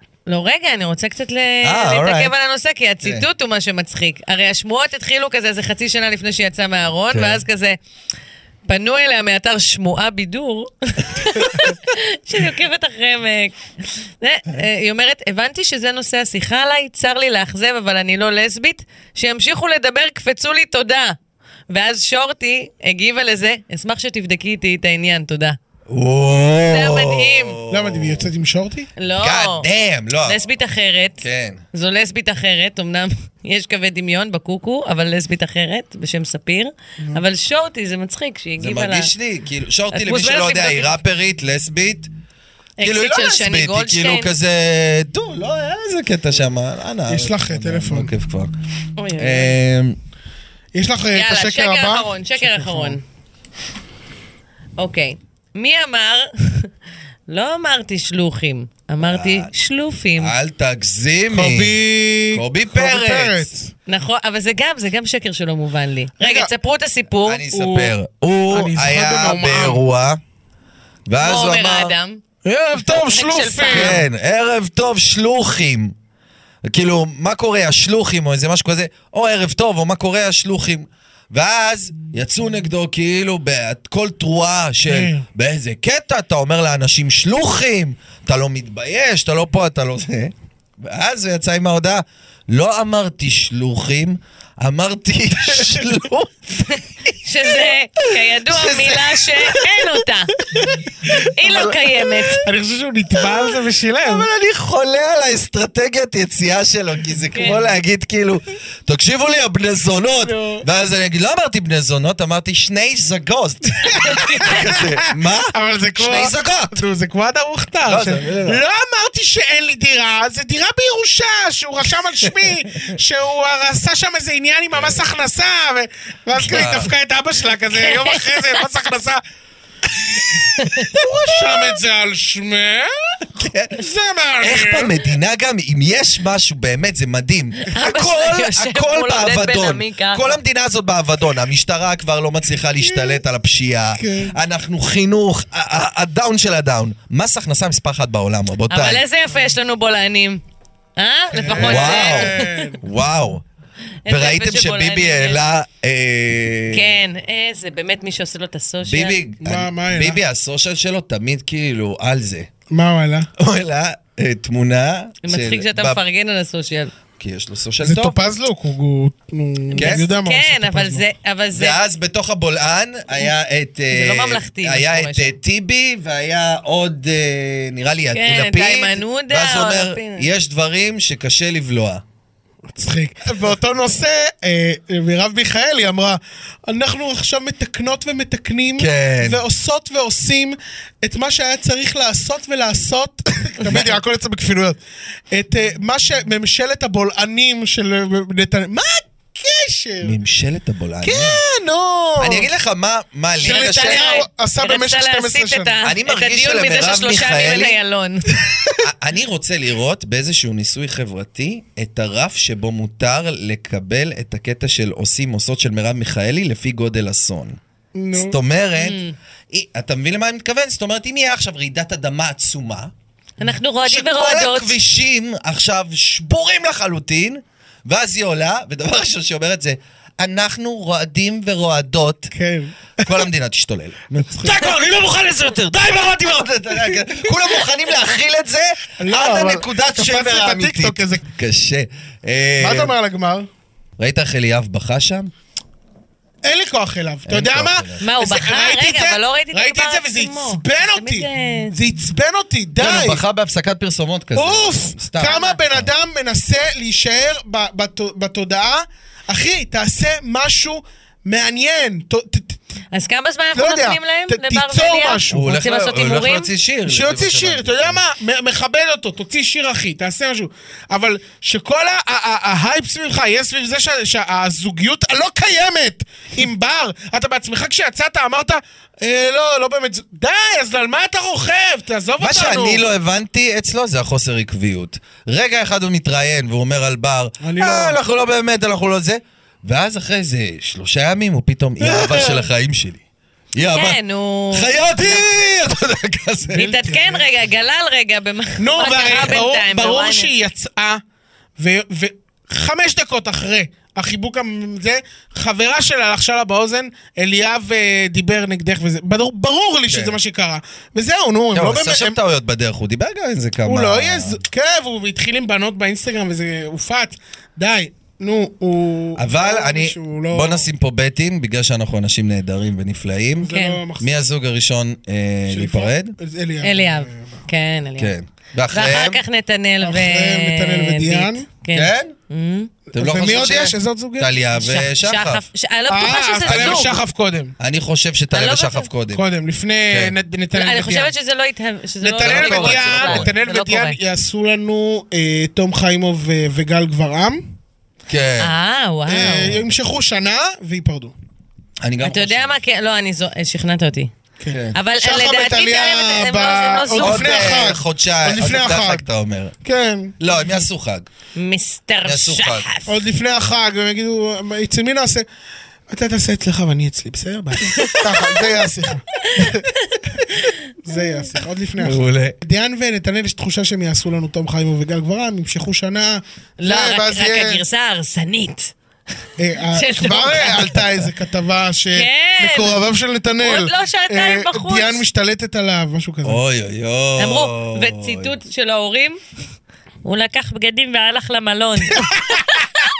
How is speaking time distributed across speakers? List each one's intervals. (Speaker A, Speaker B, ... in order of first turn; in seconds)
Speaker A: 0.3-7.8, 8.7-21.1, 21.7-25.6, 26.7-27.6, 29.0-29.7, 30.2-39.1, 39.9-41.0, 42.8-44.3, 49.0-49.6, 51.1-53.0, 54.8-56.7, 57.3-60.3, 63.9-67.7, 71.2-72.2, 72.8-74.0, 96.7-100.3, 101.2-102.4, 107.3-107.6, 127.7-128.5, 130.6-130.9, 137.7-140.4, 148.7-150.4, 151.0-152.7, 154.0-155.4, 156.7-159.2, 165.2-166.9, 169.7-171.8, 173.9-175.3, 178.1-180.3, 203.4-208.3, 218.8-219.1, 223.4-224.7, 248.0-251.7, 255.2-255.5, 262.9-266.5, 293.7-295.2, 296.5-300.3, 323.5-323.8, 326.6-328.1, 328.7-332.7, 334.6-336.9, 338.3-338.9, 340.5-344.0, 348.4-349.6, 352.0-354.1, 354.7-357.6, 361.3-363.0, 367.8-368.0, 369.2-370.5, 376.6-378.7, 379.7-380.8, 381.9-382.8, 383.4-385.0, 387.2-389.2, 390.0-392.6
Speaker B: 1.6-2.3, 7.1-7.4, 25.9-28.3, 29.2-30.4, 31.2-31.6, 38.6-42.1, 42.8-48.5, 49.2-50.0, 59.0-59.5, 60.1-61.7, 62.3-63.5, 67.2-70.2, 71.1-71.9, 73.7-75.9, 76.6-100.0, 100.5-102.4, 103.2-116.8, 117.9-118.6, 126.3-126.9, 130.9-131.8, 133.3-133.8, 134.4-149.0, 151.6-153.4, 154.1-156.9, 158.8-162.5, 163.4-166.0, 167.2-168.2, 169.8-170.0, 171.5-182.0, 188.8-189.4, 200.0-201.4, 202.2-204.2, 205.8-207.8, 208.8-217.6, 218.1-222.9, 223.8-232.3, 233.0-242.9, 244.0-245.3, 247.3-248.0, 252.8-255.9, 265.3-268.0, 282.2-293.0, 293.5-294.0, 294.5-296.6, 309.9-310.2, 311.5-314.4, 319.2-326.1, 328.0-329.2, 331.7-332.1, 332.9-335.4, 336.5-337.0, 337.6-339.2, 342.2-343.3, 348.1-348.5, 351.8-352.6, 354.5-354.8, 357.0-359.5, 360.2-361.1, 362.0-362.7, 371.8-372.4, 386.2-388.3
Speaker C: 27.7-28.9, 47.1-48.1, 50.7-53.0, 61.3-63.7, 66.2-66.5, 68.5-69.8, 72.4-74.0, 84.8-85.2, 102.4-104.3, 110.2-110.6, 113.9-129.2, 130.1-134.9, 142.8-143.2, 143.9-144.3, 151.3-152.8, 159.4-160.2, 162.7-163.3, 167.8-171.0, 182.7-194.8, 195.3-200.2, 201.0-202.4, 203.4-205.7, 217.9-218.4, 232.3-233.2, 234.2-234.7, 236.8-237.2, 239.0-241.2, 242.6-243.5, 246.4-253.2, 254.3-262.6, 263.5-265.4, 266.9-282.8, 287.4-288.0, 291.8-292.4, 296.5-297.2, 298.6-301.0, 301.6-312.2, 313.6-320.7, 323.4-324.1, 325.5-327.4, 329.8-331.4, 332.9-334.3, 335.9-337.5, 339.1-341.1, 342.0-347.4, 349.1-351.1, 354.4-359.1, 359.6-360.6, 362.9-365.2, 365.9-369.7, 370.8-377.6, 379.4-386.4